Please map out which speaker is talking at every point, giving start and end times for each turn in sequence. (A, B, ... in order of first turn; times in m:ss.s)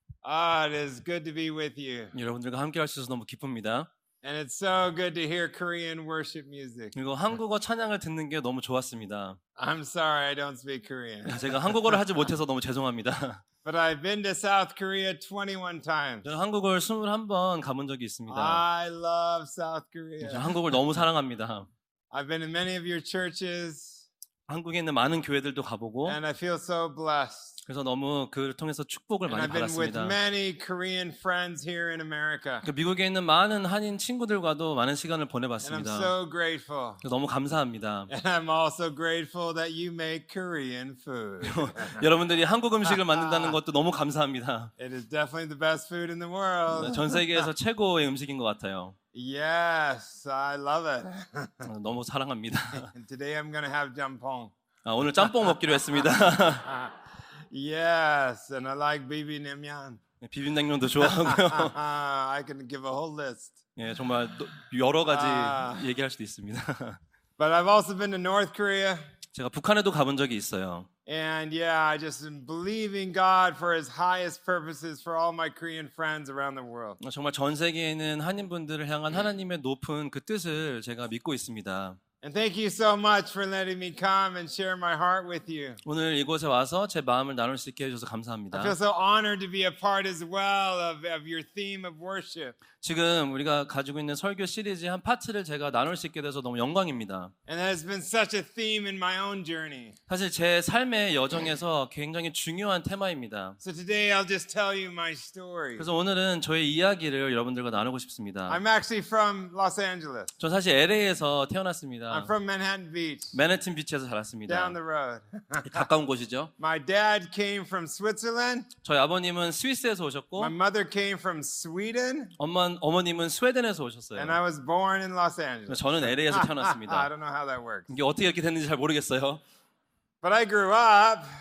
0:00.2-0:02.1 A
0:02.1-0:03.9 B
0:04.2-0:07.0 A
0:06.9-0:09.4 B
0:09.6-0:12.0 A
0:11.3-0:13.4 B
0:13.6-0:16.3 A
0:16.2-0:18.6 B
0:18.3-0:20.5 A
0:20.2-0:21.7 B
0:22.1-0:24.0 A
0:24.5-0:26.2 B
0:26.1-0:27.6 A
0:27.7-0:30.2 B
0:29.3-0:32.6 A
0:32.6-0:36.1 B
0:35.6-0:37.0 A
0:37.0-0:38.1 B
0:38.1-0:42.1 A
0:41.4-0:44.7 B
0:42.8-0:43.6 A
0:44.8-0:47.5 A
0:46.7-0:49.0 B
0:49.1-0:51.7 A
0:51.6-0:52.9 B
0:52.8-0:54.5 A
0:54.8-0:56.7 B
0:56.6-1:00.0 A
1:00.2-1:01.8 B
1:01.0-1:03.6 A
1:03.8-1:07.0 B
1:05.1-1:05.9 A
1:07.4-1:09.0 A
1:09.3-1:10.9 B
1:11.1-1:17.0 A
1:17.0-1:22.0 B
1:22.2-1:25.8 A
1:25.8-1:28.8 B
1:28.5-1:32.6 A
1:32.8-1:37.3 B
1:37.5-1:40.0 A
1:40.1-1:43.6 B
1:43.6-1:45.9 A
1:45.8-1:48.6 B
1:48.5-1:50.3 A
1:50.4-1:52.3 B
1:52.1-1:53.3 A
1:53.3-1:54.8 B
1:54.5-1:55.9 A
1:55.6-1:56.5 B
1:56.6-1:58.7 A
1:58.8-2:00.5 B
2:00.4-2:02.3 A
2:02.4-2:04.4 B
2:04.2-2:07.9 A
2:05.7-2:07.1 B
2:07.9-2:09.4 B
2:10.2-2:11.3 A